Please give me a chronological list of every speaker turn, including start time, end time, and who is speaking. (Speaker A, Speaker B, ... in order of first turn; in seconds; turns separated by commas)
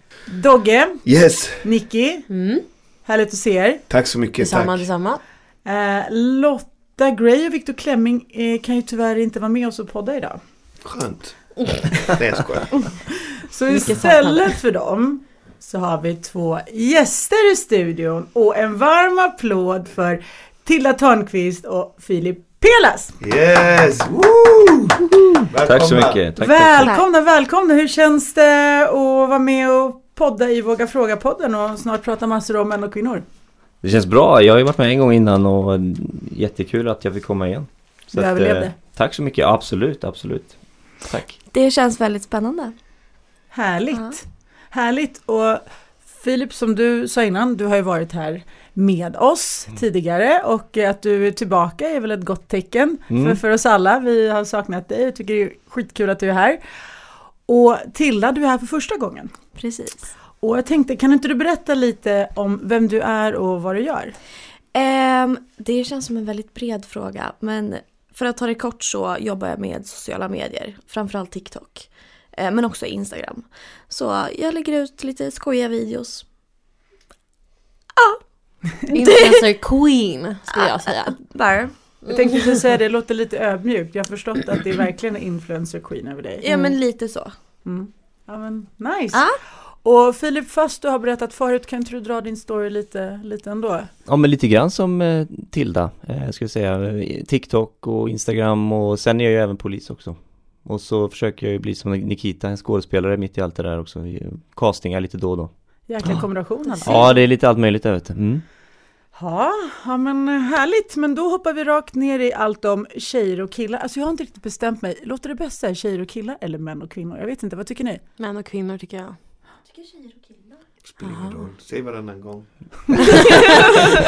Speaker A: 0.3-3.8, Speaker B: 1.0-1.7, Speaker C: 2.3-2.6, Speaker B: 3.9-4.9, Speaker C: 4.4-5.2, Speaker A: 5.7-10.4, Speaker B: 10.8-13.0, Speaker A: 13.4-23.2, Speaker C: 13.7-14.5, Speaker B: 23.2-24.9, Speaker D: 25.3-27.0, Speaker B: 25.5-26.2, Speaker A: 26.4-33.2, Speaker D: 33.8-41.4, Speaker A: 38.1-38.7, Speaker E: 41.5-42.8, Speaker A: 43.5-56.6, Speaker D: 53.1-53.4, Speaker A: 57.5-59.3, Speaker E: 59.6-60.1, Speaker A: 60.4-64.2, Speaker E: 64.7-76.3, Speaker E: 78.0-78.2, Speaker E: 78.7-79.4, Speaker C: 78.9-81.2, Speaker E: 80.5-82.1, Speaker A: 82.1-86.7, Speaker E: 86.4-87.3, Speaker A: 87.7-93.9, Speaker E: 89.1-89.4, Speaker D: 94.1-105.5, Speaker A: 105.9-107.1, Speaker E: 106.7-107.2, Speaker D: 106.8-108.5, Speaker A: 109.1-118.0, Speaker C: 118.2-119.2, Speaker E: 119.6-120.7, Speaker B: 120.9-123.0, Speaker C: 121.0-121.4